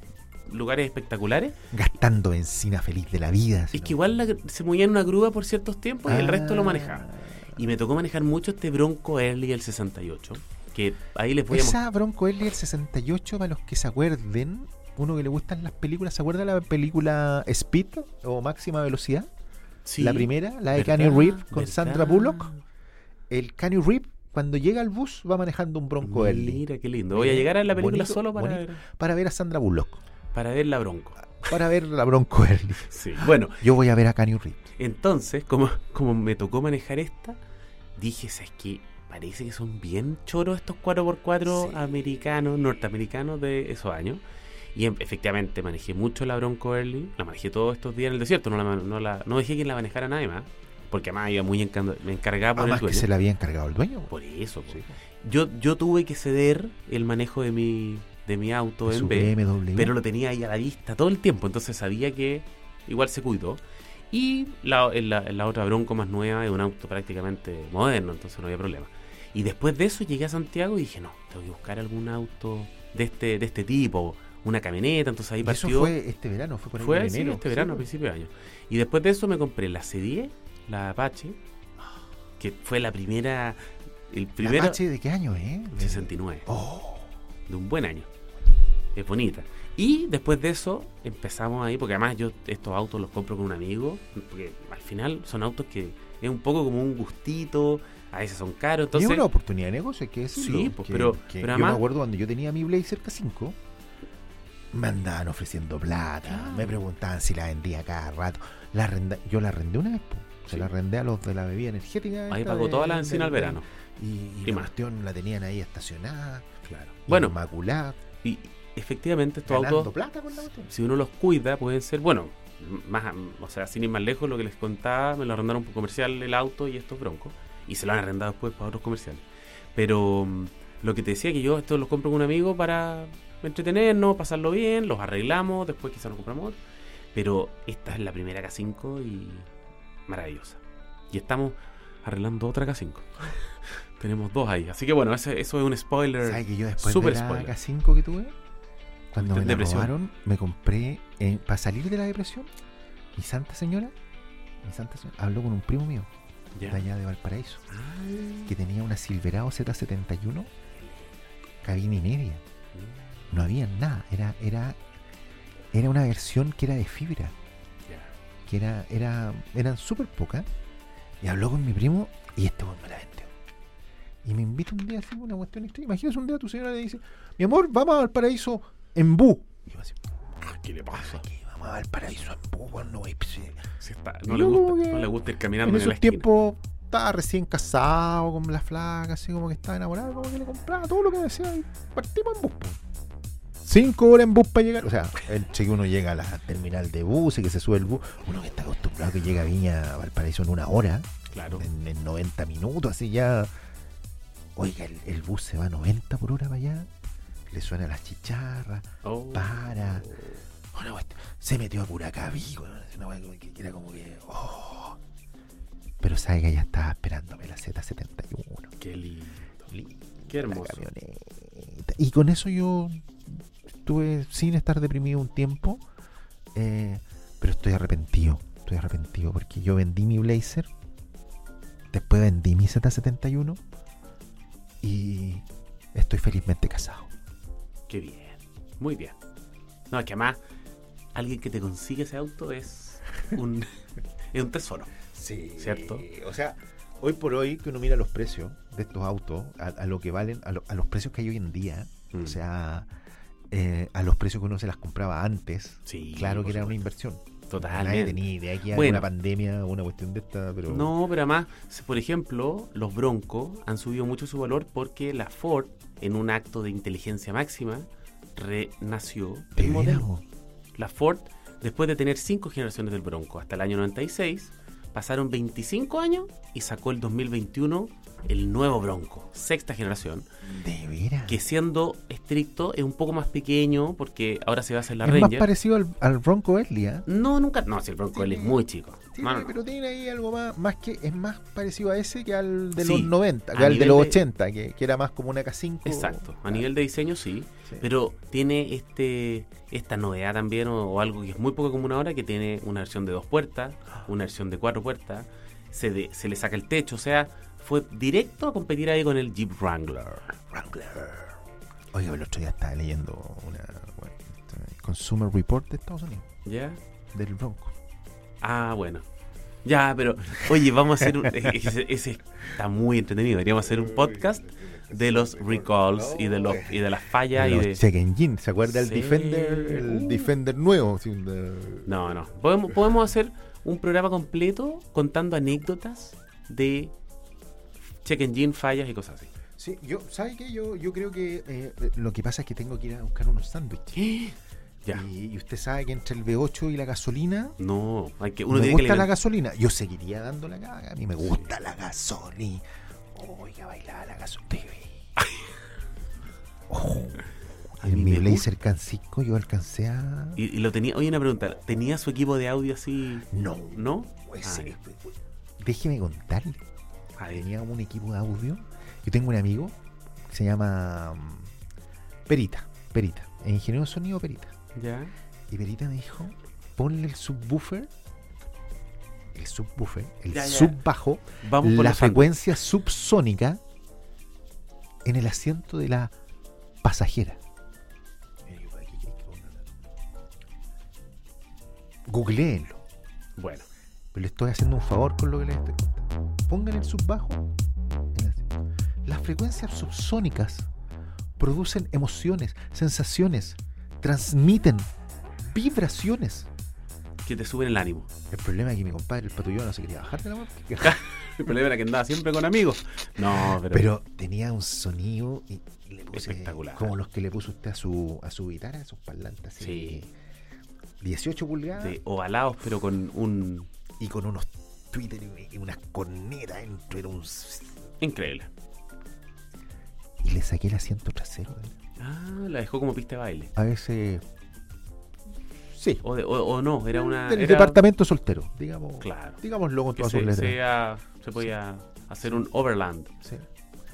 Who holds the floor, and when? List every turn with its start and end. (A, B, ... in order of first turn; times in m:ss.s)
0:00.5-0:01.6 A
0:01.7-0:04.1 B
0:03.7-0:11.8 A
0:06.0-0:07.6 B
0:11.5-0:19.3 B
0:19.8-0:22.6 A
0:20.0-0:22.5 B
0:23.3-0:30.0 B
0:26.0-0:28.8 A
0:30.3-0:31.3 A
0:31.4-0:34.7 B
0:32.9-0:33.7 A
0:34.8-0:37.4 A
0:38.0-0:44.2 A
0:41.4-0:42.0 B
0:44.7-0:53.1 A
0:52.6-0:54.1 B
0:54.1-1:15.9 A
0:54.7-0:54.9 B
0:58.8-0:59.9 B
1:15.4-1:17.9 B
1:16.8-1:21.4 A
1:22.4-1:23.6 A
1:24.1-1:24.8 A
1:24.4-1:27.1 B
1:25.7-1:26.5 A
1:27.5-1:28.1 A
1:28.9-1:39.3 A
1:38.9-1:43.6 B
1:40.3-1:41.8 A
1:44.7-1:56.5 B
1:46.2-1:46.8 A
1:52.3-1:53.6 A
1:56.6-1:57.4 A
1:57.1-1:58.0 B
1:58.2-1:59.9 A
1:59.4-2:00.7 B
2:00.7-2:09.2 A
2:09.7-2:16.6 A
2:17.1-2:19.5 A
2:20.1-2:27.5 A
2:26.2-2:28.3 B
2:29.1-2:32.5 B
2:29.1-2:29.9 A
2:33.1-2:33.9 B
2:34.6-2:36.1 B
2:36.5-2:36.8 A
2:36.6-2:37.7 B
2:37.7-2:38.5 A
2:38.4-2:40.5 B
2:41.6-2:42.4 B
2:42.7-2:43.0 A
2:43.3-2:44.8 B
2:45.7-2:47.3 B
2:48.4-2:50.5 B
2:51.2-2:53.3 B
2:54.2-3:00.0 B
3:00.4-3:01.3 A
3:00.9-3:03.7 B
3:03.8-3:06.3 A
3:04.3-3:12.8 B
3:13.6-3:23.5 B
3:21.3-3:21.7 A
3:24.6-3:26.9 B
3:27.5-3:30.1 B
3:29.0-3:30.4 A
3:30.7-3:35.0 B
3:36.0-3:38.7 B
3:38.8-3:39.7 A
3:39.7-3:45.8 B
3:40.2-3:40.8 A
3:46.5-3:50.7 B
3:51.9-3:53.6 B
3:54.8-3:57.1 B
3:57.9-3:59.2 A
3:59.9-4:00.4 A
4:01.1-4:03.7 A
4:04.3-4:04.9 A
4:05.1-4:12.9 B
4:05.6-4:06.0 A
4:12.1-4:12.4 A
4:13.5-4:20.9 B
4:15.8-4:16.8 A
4:17.5-4:19.1 A
4:20.7-4:30.1 A
4:29.6-4:30.2 B
4:30.8-4:40.3 A
4:40.4-4:41.4 B
4:41.3-4:45.5 A
4:45.0-4:47.1 B
4:47.0-4:49.5 A
4:48.1-4:56.7 B
4:52.8-4:54.2 A
4:55.8-5:10.3 A
4:57.6-4:57.9 B
5:10.4-5:11.4 B
5:11.9-5:16.3 B
5:16.4-5:16.8 A
5:17.1-5:17.7 B
5:18.4-5:19.0 A
5:19.6-5:27.8 A
5:20.4-5:21.7 B
5:23.6-5:32.1 B
5:28.6-5:30.3 A
5:31.8-5:36.9 A
5:38.0-5:39.3 A
5:39.6-5:44.0 B
5:43.9-5:45.0 A
5:44.9-5:47.6 B
5:47.6-5:49.1 A
5:48.5-5:55.0 B
5:56.7-6:00.4 B
5:57.8-5:58.5 A
6:00.4-6:04.8 A
6:03.3-6:06.6 B
6:07.2-6:07.4 A
6:07.3-6:11.5 B
6:12.3-6:14.5 B
6:14.7-6:15.1 A
6:15.5-6:17.9 B
6:19.3-6:23.6 B
6:20.3-6:20.8 A
6:21.4-6:22.4 A
6:25.0-6:26.1 B
6:26.8-6:27.4 B
6:28.4-6:29.7 B
6:32.0-6:32.8 B
6:33.4-6:33.6 A
6:34.1-6:37.4 B
6:38.1-6:38.4 B
6:39.0-6:40.7 B
6:41.4-6:44.9 B
6:45.4-6:46.5 B
6:47.2-6:48.1 A
6:48.3-6:51.0 B
6:50.8-6:53.9 A
6:53.2-7:00.1 B
6:56.1-6:56.9 A
6:59.6-7:00.0 A
7:01.0-7:02.0 B
7:01.7-7:03.7 A
7:04.0-7:07.8 B
7:08.0-7:08.5 A
7:10.2-7:11.8 B
7:12.0-7:13.5 A
7:13.5-7:14.2 B
7:15.7-7:16.0 B
7:16.0-7:17.8 A
7:16.9-7:20.6 B
7:19.0-7:19.4 A
7:20.0-7:23.1 A